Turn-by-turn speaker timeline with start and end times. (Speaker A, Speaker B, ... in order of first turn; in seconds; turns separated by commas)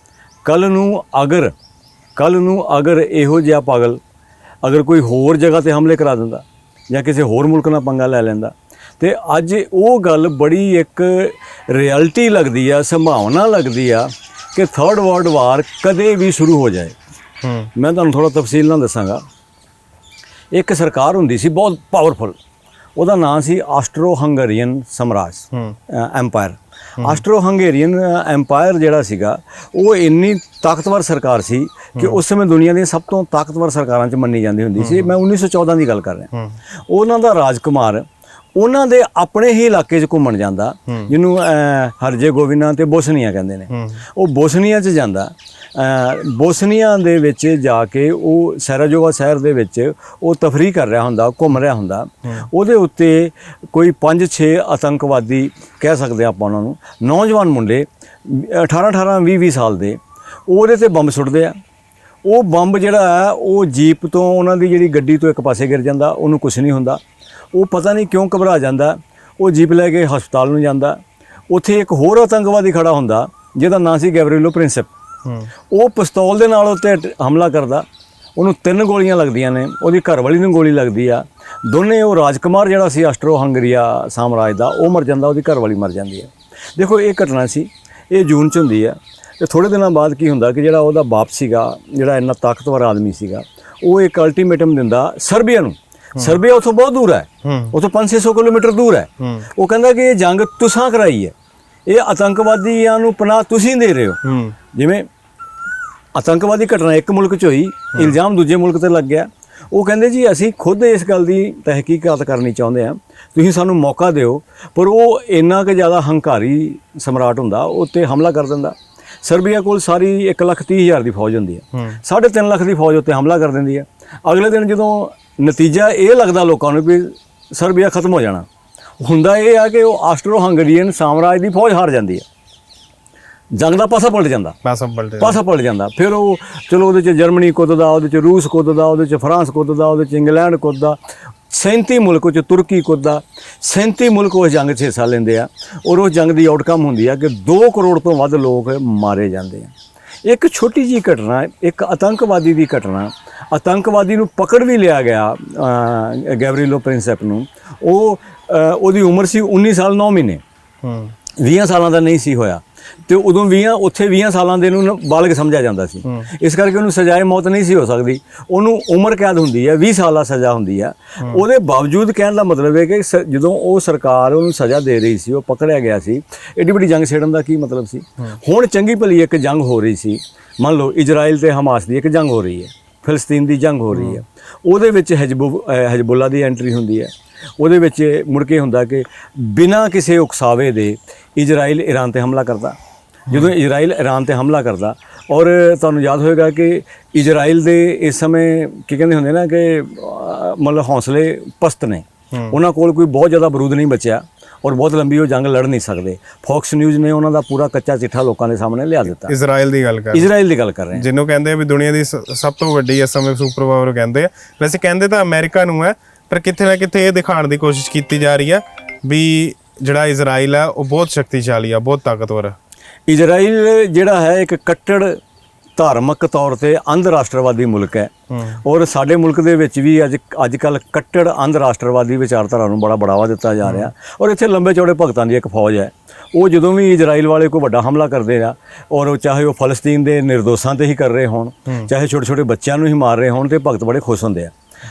Speaker A: 0.5-1.5, Speaker A: 2.2-4.0, Speaker A: 4.6-17.0, Speaker B: 17.4-17.7, Speaker A: 17.8-19.2, Speaker A: 20.5-22.4, Speaker A: 23.0-36.3, Speaker B: 34.8-35.1, Speaker A: 36.9-61.6, Speaker B: 43.7-44.0, Speaker A: 62.2-67.0, Speaker A: 67.5-74.9, Speaker A: 75.7-101.3, Speaker B: 97.5-97.7, Speaker A: 101.9-104.2, Speaker B: 104.2-104.6, Speaker A: 104.7-105.1, Speaker A: 106.2-128.5, Speaker A: 129.0-132.3, Speaker A: 133.5-134.6, Speaker B: 134.6-135.4, Speaker A: 135.2-141.0, Speaker A: 141.5-149.7, Speaker A: 150.2-160.4, Speaker B: 160.8-161.1, Speaker A: 161.4-209.3, Speaker B: 183.9-184.2, Speaker B: 209.3-210.3, Speaker A: 210.1-211.1, Speaker B: 210.9-222.6, Speaker A: 223.1-225.2, Speaker A: 225.8-244.5, Speaker B: 228.3-228.6